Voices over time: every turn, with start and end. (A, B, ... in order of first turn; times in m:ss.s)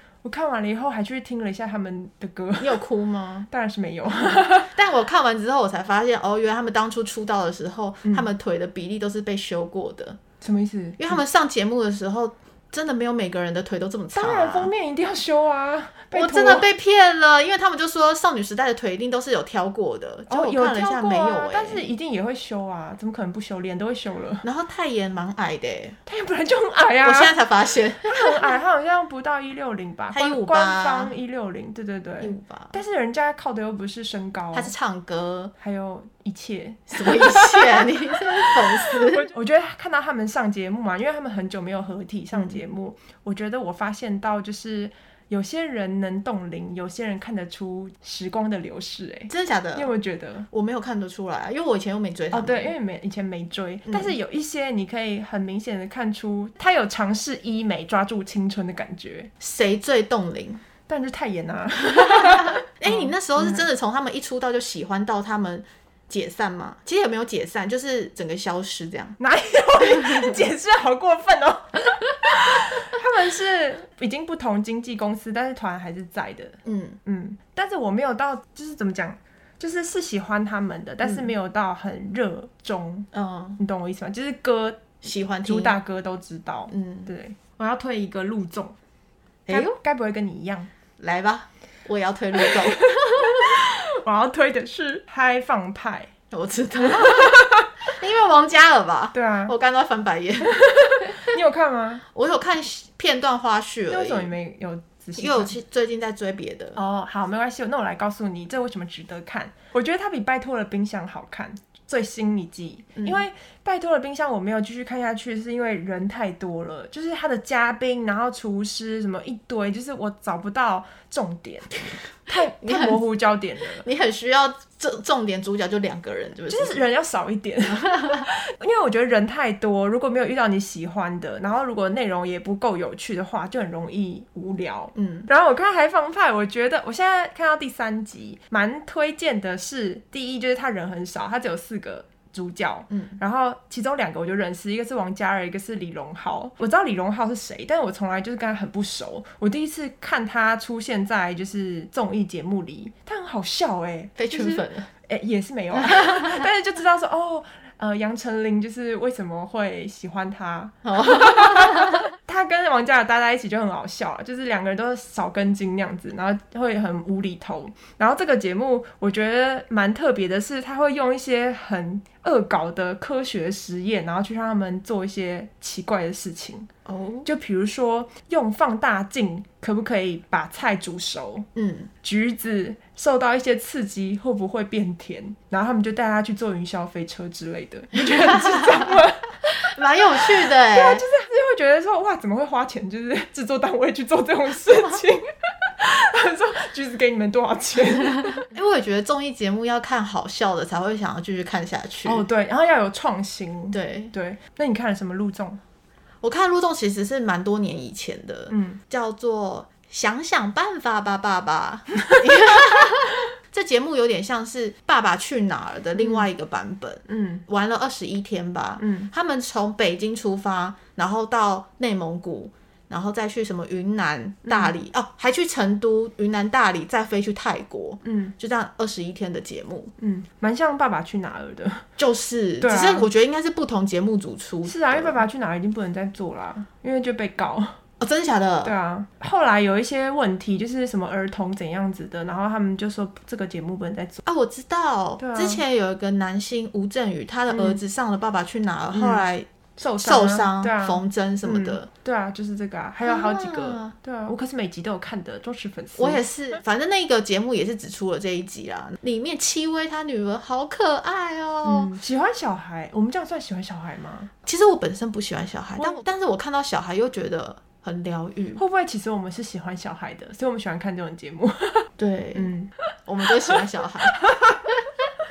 0:00.2-0:02.8 A
0:02.6-0:03.5 B
0:03.5-0:04.7 A
0:04.6-0:10.2 B
0:10.4-0:11.2 A
0:11.0-0:14.7 B
0:14.1-0:16.6 A
0:16.1-0:21.8 B
0:20.3-0:24.4 A
0:24.4-0:26.0 B
0:26.0-0:27.4 A
0:27.0-0:28.5 B
0:28.0-0:34.7 A
0:30.1-0:31.1 B
0:32.2-0:32.7 B
0:34.5-0:35.5 B
0:35.6-0:50.5 A
0:36.9-0:39.3 B
0:42.3-0:42.6 B
0:49.3-0:49.9 B
0:50.5-0:52.7 B
0:52.3-0:59.3 A
0:53.9-0:54.1 B
0:59.4-1:00.6 B
1:00.9-1:03.6 A
1:01.9-1:09.2 B
1:09.2-1:28.8 A
1:09.8-1:10.3 B
1:16.6-1:17.0 B
1:23.1-1:23.6 B
1:25.0-1:25.8 B
1:26.7-1:27.1 B
1:29.5-1:29.8 B
1:29.5-1:30.7 A
1:31.0-1:33.5 B
1:32.4-1:36.1 A
1:36.3-1:41.2 B
1:36.8-1:37.7 A
1:39.1-1:39.5 A
1:40.5-1:42.0 A
1:42.1-1:44.3 B
1:43.9-1:45.5 A
1:45.2-1:46.8 B
1:46.8-2:01.7 A
1:53.0-1:53.2 B
2:02.3-2:03.8 A
2:02.5-2:03.0 B
2:03.8-2:06.8 B
2:06.5-2:56.7 A
2:07.8-2:08.2 B
2:14.9-2:15.3 B
2:22.9-2:23.2 B
2:34.2-2:34.9 B
2:35.8-2:36.4 B
2:40.8-2:42.0 B
2:56.8-2:57.3 B
2:57.2-3:01.5 A
3:01.5-3:01.9 B
3:02.0-3:09.4 A
3:08.0-3:09.0 B
3:09.5-3:11.0 B
3:10.1-3:18.5 A
3:18.3-3:22.2 B
3:22.0-3:25.6 A
3:23.7-3:24.1 B
3:26.2-3:49.9 B
3:28.5-3:28.8 A
3:32.1-3:32.9 A
3:36.0-3:36.2 A
3:37.1-3:37.4 A
3:38.8-3:39.1 A
3:44.5-3:44.7 A
3:48.0-3:48.3 A
3:50.0-3:51.8 A
3:52.0-3:55.2 B
3:52.6-3:53.1 A
3:54.6-3:57.8 A
3:58.0-3:58.7 B
3:58.6-4:04.2 A
4:04.2-4:09.5 B
4:05.2-4:05.6 A
4:07.5-4:07.8 A
4:08.9-4:09.2 A
4:09.8-4:16.6 A
4:10.0-4:11.9 B
4:13.0-4:13.9 B
4:16.0-4:21.9 B
4:21.6-4:24.3 A
4:24.4-4:28.6 B
4:28.6-4:33.6 A
4:32.0-4:32.5 B
4:33.0-4:35.0 B
4:34.1-4:34.6 A